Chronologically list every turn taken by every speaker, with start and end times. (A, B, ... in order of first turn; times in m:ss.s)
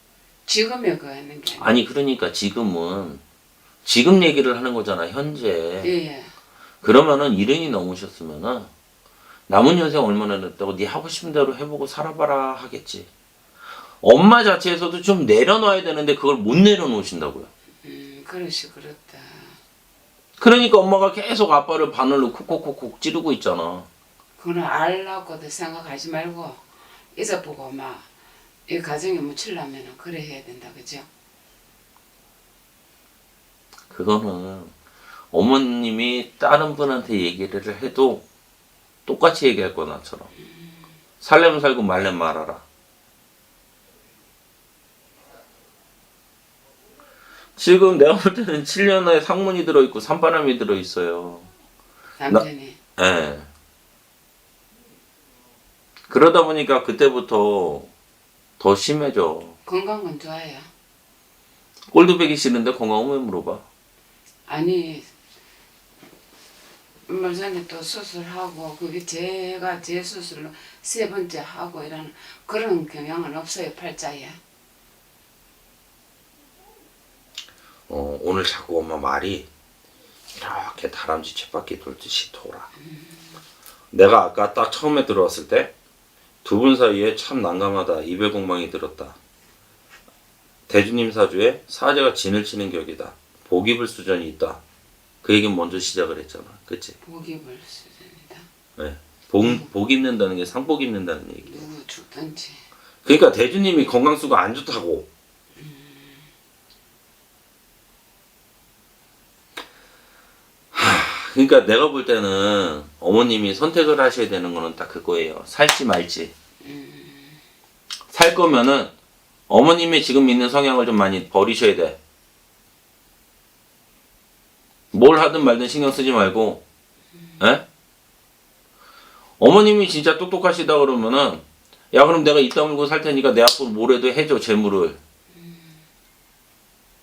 0:00.5-0:01.7 A
0:01.6-0:03.2 B
0:03.8-0:05.9 B
0:05.8-0:06.3 A
0:06.8-0:08.7 B
0:09.5-0:13.1 B
0:14.0-0:17.5 B
0:17.8-0:19.6 A
0:20.4-0:23.9 B
0:24.4-0:26.6 A
0:27.2-0:28.0 A
0:28.7-0:31.1 A
0:33.9-0:34.7 B
0:35.3-0:38.2 B
0:39.1-0:40.3 B
0:41.2-0:42.6 B
0:47.6-0:51.5 B
0:52.2-0:52.8 A
0:53.0-0:53.5 B
0:56.1-0:57.9 B
0:58.6-0:59.6 B
0:59.7-1:00.7 A
1:01.9-1:03.6 B
1:04.5-1:05.1 A
1:07.1-1:14.4 A
1:17.9-1:19.5 B
1:20.4-1:22.7 B
1:22.8-1:23.3 A
1:23.9-1:25.7 B
1:26.4-1:29.2 B
1:30.7-1:34.6 B
1:35.2-1:37.0 B
1:37.0-1:38.5 A
1:38.8-1:41.6 B
1:39.4-1:39.7 A
1:41.4-1:42.6 A
1:43.0-1:45.1 B
1:45.6-1:46.3 A
1:50.7-1:56.3 B
1:56.6-1:57.4 A
1:58.1-1:58.9 B
1:59.5-2:02.0 B
2:04.9-2:06.6 B
2:07.4-2:07.6 B
2:09.4-2:15.0 B
2:15.4-2:15.7 A